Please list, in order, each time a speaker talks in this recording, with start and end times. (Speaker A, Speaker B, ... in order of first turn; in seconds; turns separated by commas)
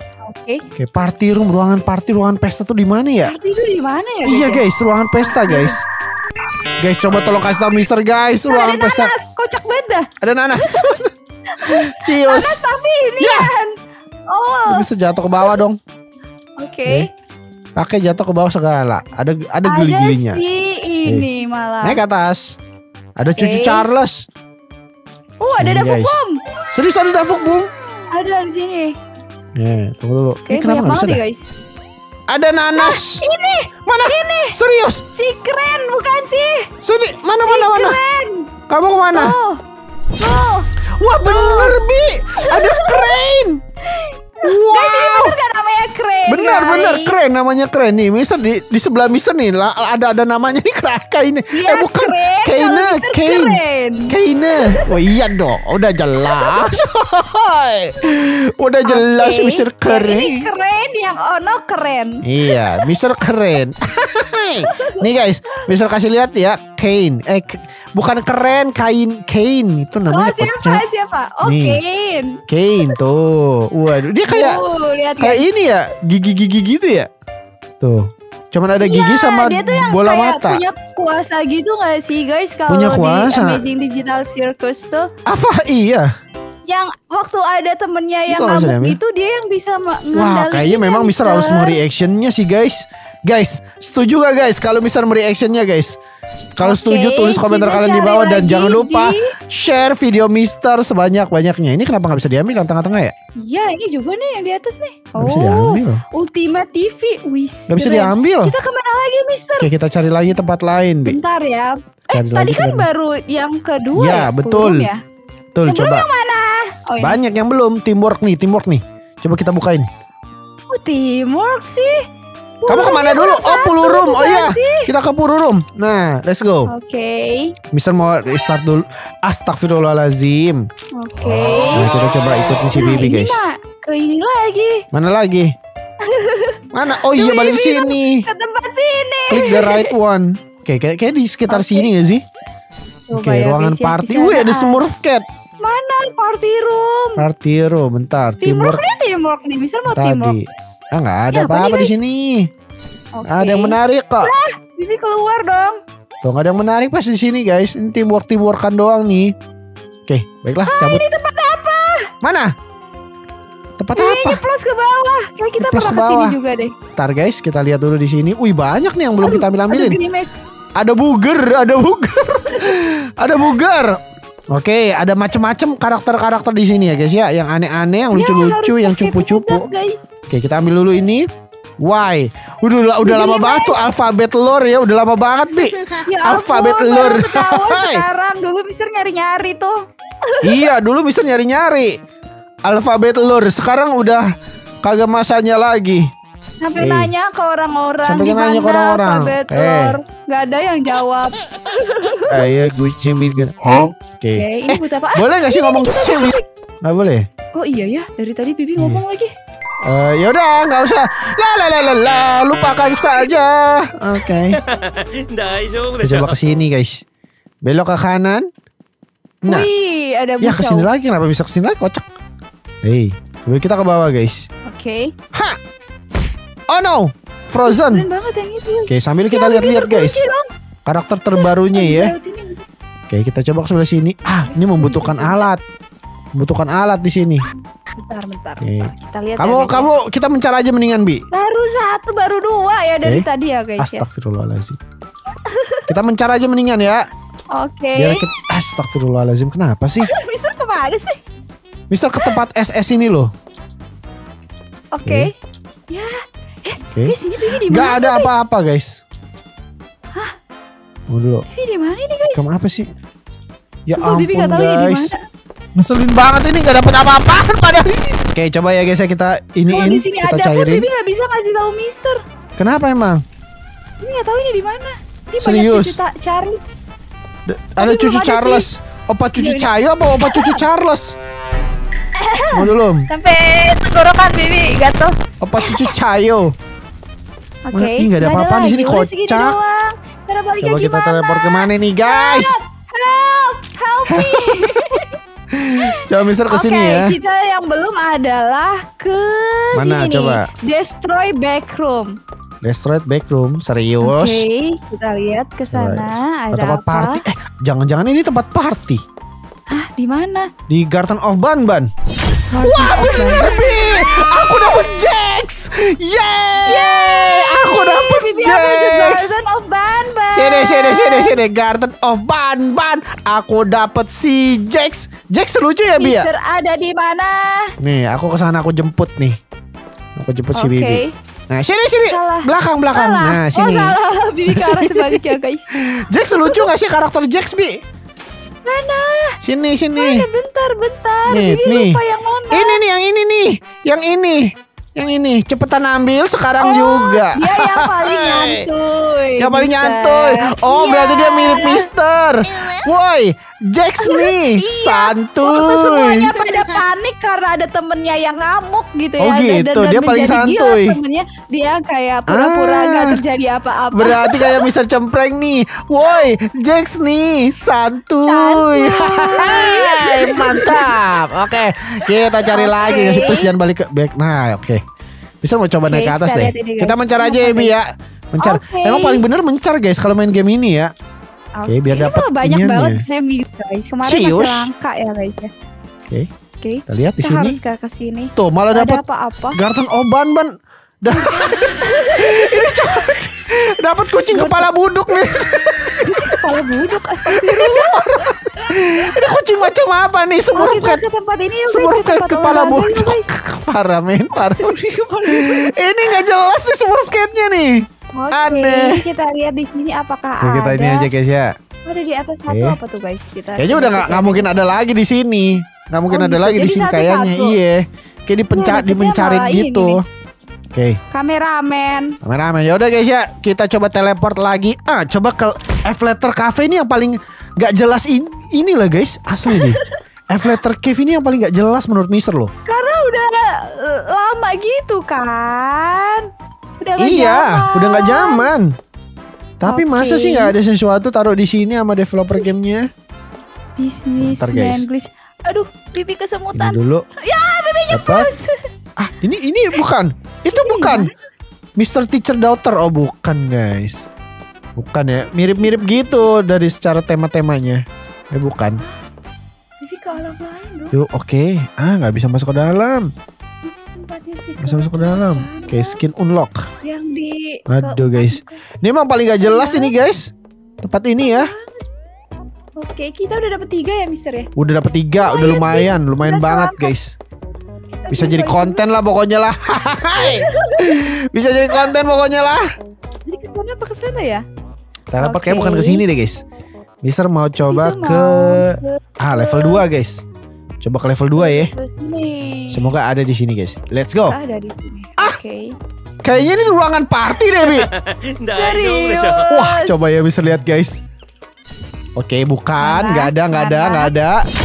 Speaker A: 0.3-0.6, Speaker B: 0.8-3.3, Speaker A: 3.2-4.7, Speaker B: 4.2-5.8, Speaker A: 5.2-5.8, Speaker B: 6.8-9.1, Speaker A: 8.5-10.9, Speaker B: 10.2-12.6, Speaker A: 11.6-13.8, Speaker B: 13.2-13.5, Speaker A: 14.3-14.9, Speaker B: 14.7-15.8, Speaker A: 16.6-17.1, Speaker B: 17.8-20.4, Speaker A: 19.6-22.0, Speaker B: 21.8-22.6, Speaker B: 23.2-24.2, Speaker A: 23.4-23.9, Speaker A: 25.4-26.4, Speaker B: 25.6-26.2, Speaker B: 26.7-27.7, Speaker A: 28.1-29.0, Speaker B: 29.6-31.2, Speaker A: 30.5-31.5, Speaker B: 32.3-33.2, Speaker A: 32.8-34.6, Speaker B: 33.9-35.0, Speaker A: 35.1-36.7, Speaker B: 36.8-38.0, Speaker A: 37.3-38.5, Speaker B: 38.7-39.4, Speaker A: 39.1-39.6, Speaker A: 40.2-40.7, Speaker B: 41.0-43.6, Speaker A: 41.2-43.2, Speaker A: 43.9-47.3, Speaker B: 44.4-45.4, Speaker B: 46.3-60.5, Speaker A: 51.5-55.0, Speaker A: 56.2-56.8, Speaker A: 58.9-62.2, Speaker B: 62.2-70.8, Speaker A: 64.7-65.1, Speaker A: 70.1-73.0, Speaker B: 71.4-71.8, Speaker B: 72.5-74.6, Speaker A: 74.3-75.5, Speaker B: 75.2-77.1, Speaker B: 77.8-80.6, Speaker A: 78.8-85.1, Speaker B: 82.7-83.6, Speaker B: 85.3-86.1, Speaker A: 86.7-91.8, Speaker B: 88.3-89.0, Speaker B: 90.1-96.0, Speaker B: 96.6-103.1, Speaker A: 96.6-99.3, Speaker A: 103.4-109.7, Speaker B: 105.2-106.0, Speaker B: 107.7-108.5, Speaker B: 109.6-111.2, Speaker A: 111.1-115.0, Speaker B: 112.1-112.9, Speaker B: 113.9-114.9, Speaker B: 115.5-116.1, Speaker A: 115.7-117.2, Speaker B: 117.0-119.9, Speaker A: 120.7-122.0, Speaker A: 122.6-124.9, Speaker B: 122.7-126.7, Speaker A: 126.7-127.6, Speaker B: 127.7-130.7, Speaker A: 130.9-134.9, Speaker B: 131.7-133.4, Speaker B: 134.9-135.6, Speaker A: 136.0-139.9, Speaker B: 136.7-138.3, Speaker B: 139.3-142.2, Speaker A: 141.5-141.9, Speaker A: 143.1-144.8, Speaker B: 143.1-145.3, Speaker A: 145.6-147.2, Speaker B: 147.2-148.8, Speaker A: 148.4-150.4, Speaker B: 149.9-152.5, Speaker A: 151.3-152.0, Speaker A: 153.1-155.8, Speaker B: 153.3-154.3, Speaker B: 156.2-159.3, Speaker B: 160.1-161.0, Speaker A: 160.7-162.1, Speaker B: 162.2-162.5, Speaker B: 163.8-164.4, Speaker A: 163.9-166.8, Speaker B: 165.6-166.4, Speaker B: 167.0-170.0, Speaker A: 169.2-170.3, Speaker B: 170.8-174.0, Speaker A: 172.5-172.8, Speaker B: 174.5-179.7, Speaker A: 178.1-180.1, Speaker B: 180.3-181.3, Speaker B: 181.8-188.0, Speaker A: 183.0-183.8, Speaker A: 186.0-190.7, Speaker B: 190.4-192.0, Speaker B: 192.7-194.3, Speaker B: 194.8-196.1, Speaker A: 196.6-202.6, Speaker B: 196.8-197.1, Speaker B: 198.1-200.0, Speaker B: 202.3-207.3, Speaker A: 204.3-206.5, Speaker A: 207.6-209.3, Speaker B: 209.8-214.6, Speaker C: 214.6-216.4, Speaker B: 216.0-217.0, Speaker B: 217.6-218.5, Speaker A: 219.4-220.9, Speaker B: 220.4-222.1, Speaker B: 222.8-224.5, Speaker A: 224.7-225.2, Speaker B: 226.7-228.1, Speaker A: 227.6-230.5, Speaker B: 228.9-230.3, Speaker B: 230.9-232.1, Speaker A: 231.3-232.7, Speaker B: 233.1-235.6, Speaker A: 234.4-235.5, Speaker B: 236.3-237.5, Speaker A: 237.9-239.9, Speaker B: 238.6-241.2, Speaker A: 241.3-244.1, Speaker B: 243.8-244.8, Speaker A: 245.3-245.9, Speaker B: 245.9-247.0, Speaker A: 247.5-248.2, Speaker B: 248.0-250.1, Speaker A: 250.0-251.2, Speaker B: 251.9-253.3, Speaker A: 254.9-255.3, Speaker A: 255.9-258.4, Speaker B: 256.9-259.0, Speaker B: 261.1-261.5, Speaker A: 261.5-262.5, Speaker B: 262.4-262.9, Speaker B: 263.9-265.1, Speaker A: 264.0-265.2, Speaker B: 265.8-270.9, Speaker A: 269.7-272.2, Speaker B: 272.6-273.2, Speaker A: 274.0-276.6, Speaker B: 275.4-276.0, Speaker B: 277.5-281.2, Speaker A: 277.8-278.7, Speaker A: 279.4-280.6, Speaker A: 282.1-285.9, Speaker B: 282.5-283.1, Speaker B: 285.4-286.5, Speaker A: 287.7-295.2, Speaker B: 287.7-289.6, Speaker B: 290.6-292.6, Speaker B: 294.1-295.0, Speaker B: 295.5-297.2, Speaker A: 295.8-302.2, Speaker B: 299.7-300.5, Speaker B: 302.6-304.4, Speaker A: 304.0-307.2, Speaker B: 305.7-309.0, Speaker A: 309.7-310.5, Speaker B: 310.7-311.9, Speaker A: 312.5-313.9, Speaker B: 312.6-319.3, Speaker A: 316.7-321.4, Speaker B: 320.4-326.3, Speaker A: 325.9-327.7, Speaker B: 327.8-329.4, Speaker B: 330.2-334.0, Speaker A: 330.6-331.2, Speaker A: 332.0-336.7, Speaker B: 334.5-337.8, Speaker A: 338.6-339.4, Speaker B: 339.4-340.3, Speaker A: 340.0-342.8, Speaker B: 341.3-342.0, Speaker B: 342.5-348.7, Speaker A: 346.6-351.9, Speaker B: 349.4-356.3, Speaker A: 354.0-364.7, Speaker B: 359.2-361.0, Speaker B: 362.3-363.2, Speaker B: 363.9-374.8, Speaker A: 368.2-371.0, Speaker A: 372.4-373.5, Speaker B: 375.4-380.9, Speaker A: 375.9-377.8, Speaker A: 378.4-379.2, Speaker A: 381.6-385.5, Speaker B: 381.7-383.1, Speaker B: 384.0-384.7, Speaker A: 386.6-389.6, Speaker B: 386.9-387.6, Speaker B: 388.4-389.0, Speaker B: 389.5-390.5, Speaker B: 391.0-396.4, Speaker A: 391.1-393.1, Speaker A: 394.3-398.3, Speaker B: 397.3-401.0, Speaker A: 399.1-399.7, Speaker A: 400.5-403.3, Speaker B: 401.7-404.7, Speaker A: 404.4-406.1, Speaker B: 405.3-409.0, Speaker A: 408.1-411.1, Speaker B: 410.4-411.5, Speaker A: 411.9-414.6, Speaker B: 412.5-412.8, Speaker B: 413.6-420.0, Speaker A: 416.1-417.6, Speaker A: 418.5-420.0, Speaker B: 420.7-421.0, Speaker A: 421.1-422.2, Speaker B: 422.2-432.5, Speaker A: 429.5-430.0, Speaker A: 432.7-436.3, Speaker A: 436.8-438.5, Speaker B: 437.0-438.8, Speaker B: 439.6-442.9, Speaker A: 439.7-440.6, Speaker A: 443.8-448.7, Speaker B: 444.2-444.9, Speaker B: 446.5-447.1, Speaker B: 447.9-448.3, Speaker B: 449.0-451.1, Speaker A: 450.5-451.1, Speaker B: 451.8-454.1, Speaker B: 454.8-458.8, Speaker A: 455.4-456.3, Speaker A: 459.8-460.9, Speaker B: 460.9-463.1, Speaker A: 463.6-466.0, Speaker B: 464.6-466.7, Speaker A: 466.8-468.6, Speaker B: 467.7-470.3, Speaker A: 469.4-469.9, Speaker B: 470.8-471.5, Speaker A: 471.2-471.9, Speaker A: 472.8-474.5, Speaker B: 474.6-477.2, Speaker A: 475.1-476.9, Speaker A: 478.0-478.9, Speaker B: 478.1-482.6, Speaker A: 480.1-481.0, Speaker A: 481.7-481.9, Speaker A: 483.3-484.4, Speaker B: 485.1-486.4, Speaker A: 485.2-486.0, Speaker B: 487.0-490.2, Speaker A: 487.7-489.9, Speaker B: 490.8-491.7, Speaker A: 491.4-492.9, Speaker B: 492.7-494.4, Speaker A: 494.3-495.8, Speaker B: 496.2-497.9, Speaker C: 497.9-499.5, Speaker A: 498.5-500.0, Speaker B: 499.5-501.0, Speaker B: 502.2-504.4, Speaker A: 502.8-504.2